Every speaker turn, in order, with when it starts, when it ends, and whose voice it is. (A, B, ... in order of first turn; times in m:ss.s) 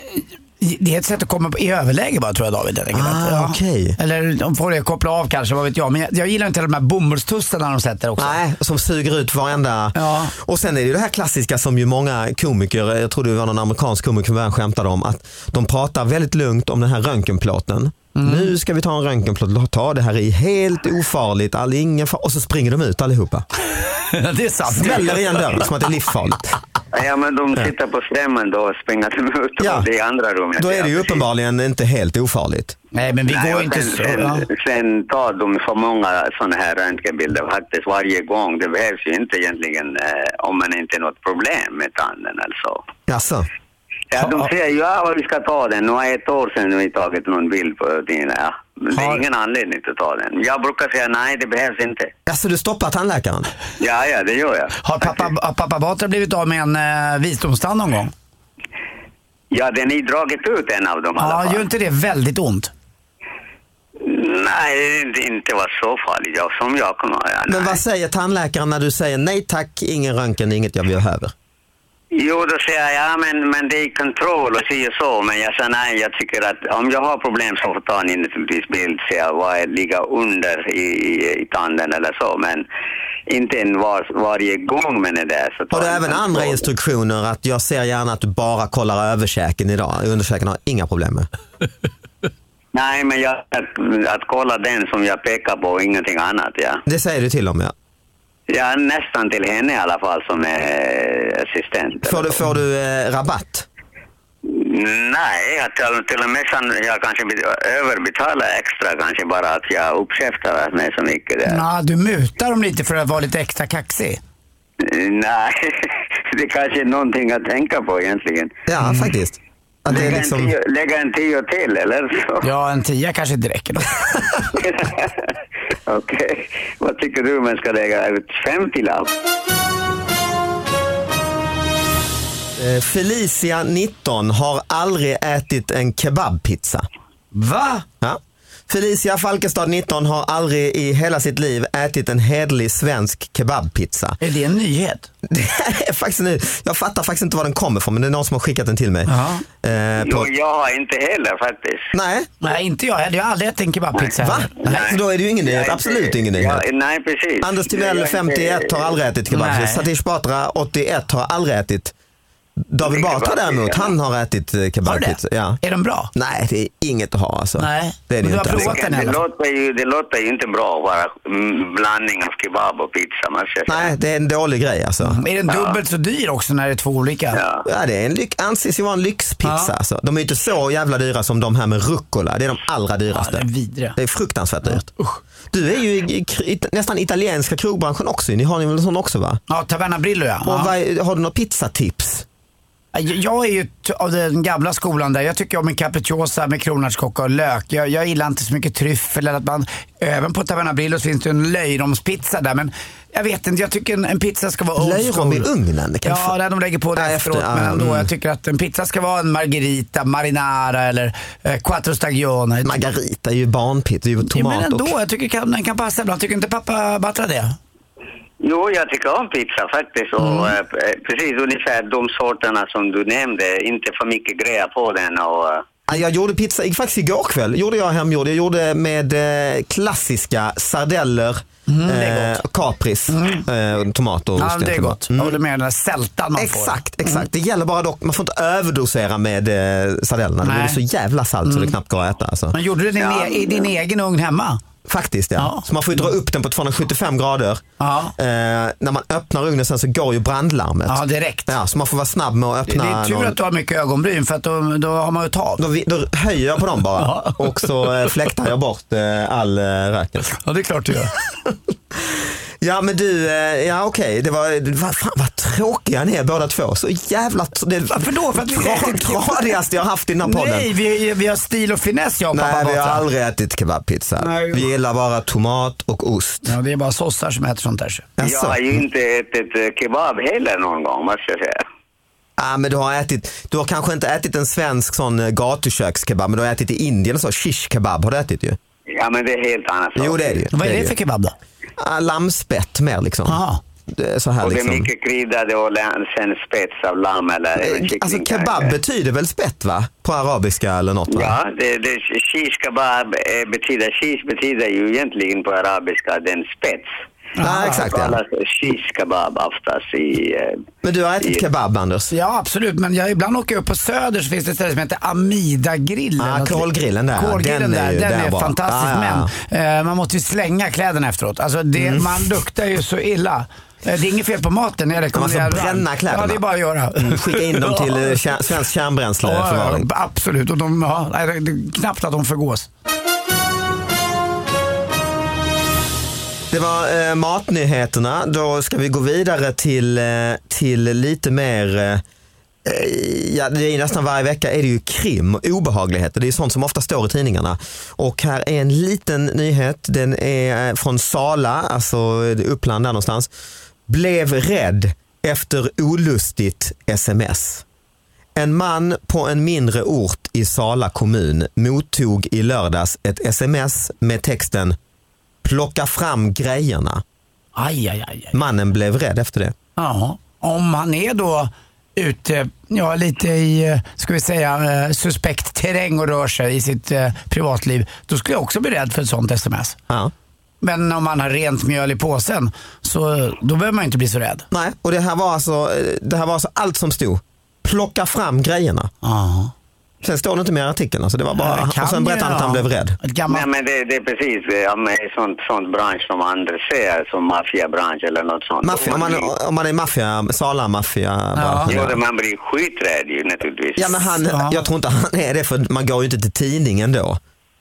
0:00.2-0:08.4 A
0:02.9-0:04.0 B
0:08.2-0:23.4 B
0:09.9-0:10.3 A
0:18.1-0:18.5 A
0:23.8-0:25.7 A
0:24.7-0:26.6 B
0:26.9-0:31.2 C
0:29.6-0:29.9 B
0:30.6-0:32.7 B
0:32.9-0:34.4 A
0:33.3-0:42.8 C
0:43.1-0:43.4 B
0:44.1-0:52.1 C
0:44.2-0:44.5 A
0:48.9-0:49.2 A
0:52.3-0:53.5 B
0:53.8-0:55.3 C
0:54.8-0:58.1 A
0:59.5-1:01.6 C
1:01.2-1:02.7 A
1:04.0-1:07.8 C
1:07.5-1:11.3 B
1:12.1-1:22.6 C
1:23.3-1:26.6 C
1:25.7-1:31.3 B
1:32.7-1:36.8 C
1:36.8-1:37.7 B
1:38.5-1:42.4 C
1:42.0-1:43.6 B
1:44.4-1:51.6 C
1:51.4-1:54.2 A
1:54.8-1:58.5 C
1:58.7-2:00.5 B
1:58.8-1:59.1 A
1:59.9-2:02.5 C
2:02.4-2:04.0 A
2:04.6-2:05.3 C
2:05.9-2:09.1 C
2:12.6-2:16.8 B
2:17.3-2:17.8 A
2:18.0-2:24.2 B
2:24.2-2:25.1 A
2:25.3-2:29.1 B
2:29.0-2:29.4 A
2:29.6-2:30.3 B
2:30.0-2:31.9 C
2:31.9-2:32.3 B
2:32.4-2:34.8 A
2:34.0-2:39.0 C
2:34.2-2:36.6 B
2:37.4-2:41.9 B
2:39.3-2:39.9 A
2:42.7-2:45.6 B
2:42.8-2:43.9 C
2:44.8-2:46.1 A
2:46.1-2:48.8 B
2:47.6-2:49.2 A
2:48.5-2:53.9 C
2:53.7-2:55.2 B
2:55.0-2:57.4 A
2:55.5-2:55.8 C
2:57.3-2:57.6 C
2:57.6-3:04.9 B
2:59.4-2:59.7 A
3:03.1-3:04.0 A
3:04.6-3:05.2 A
3:05.5-3:09.4 B
3:09.5-3:10.7 A
3:10.4-3:12.2 B
3:12.9-3:25.5 A
3:24.8-3:26.4 B
3:26.0-3:32.8 A
3:26.9-3:28.1 B
3:32.6-3:34.9 B
3:34.2-3:37.6 A
3:38.4-3:45.6 C
3:40.2-3:40.6 A
3:45.9-3:55.4 B
3:51.7-3:52.4 A
3:53.1-3:53.4 A
3:54.4-3:57.2 A
3:56.4-4:02.6 B
4:00.4-4:00.8 A
4:01.4-4:01.8 A
4:02.5-4:04.6 A
4:03.0-4:03.7 C
4:04.8-4:07.6 B
4:05.4-4:06.1 A
4:07.8-4:08.1 A
4:08.2-4:13.4 B
4:10.9-4:11.6 A
4:12.6-4:15.6 A
4:15.6-4:20.3 B
4:17.0-4:18.1 A
4:20.3-4:21.1 A
4:22.6-4:30.7 B
4:27.9-4:29.5 A
4:30.2-4:33.0 A
4:32.3-4:36.5 B
4:34.2-4:34.7 A
4:36.4-4:38.1 A
4:38.2-4:38.8 B
4:38.2-4:41.6 C
4:42.4-4:48.6 B
4:48.9-4:50.4 C
4:50.0-4:50.9 B
4:50.5-4:51.3 A
4:51.8-4:54.9 B
4:53.3-4:53.6 A
4:54.4-4:58.7 C
4:57.6-5:01.4 B
5:01.1-5:06.9 C
5:07.4-5:07.8 A
5:07.4-5:08.2 B
5:07.6-5:10.6 C
5:10.8-5:12.1 B
5:11.2-5:11.4 C
5:12.1-5:28.2 A
5:16.2-5:19.3 B
5:21.8-5:22.3 B
5:25.1-5:26.4 B
5:27.0-5:29.9 B
5:29.2-5:32.7 A
5:36.5-5:42.0 B
5:42.6-5:53.3 B
5:53.9-5:57.6 B
5:58.4-6:04.8 B
6:05.4-6:07.0 B
6:07.6-6:08.4 A
6:08.3-6:09.5 B
6:09.8-6:19.8 A
6:20.6-6:24.4 A
6:24.5-6:28.9 B
6:29.0-6:29.5 A
6:30.0-6:33.0 B
6:31.3-6:33.5 A
6:33.3-6:39.3 C
6:38.6-6:42.0 B
6:41.4-6:41.8 A
6:41.7-6:44.2 C
6:43.8-6:47.2 B
6:44.3-6:44.6 A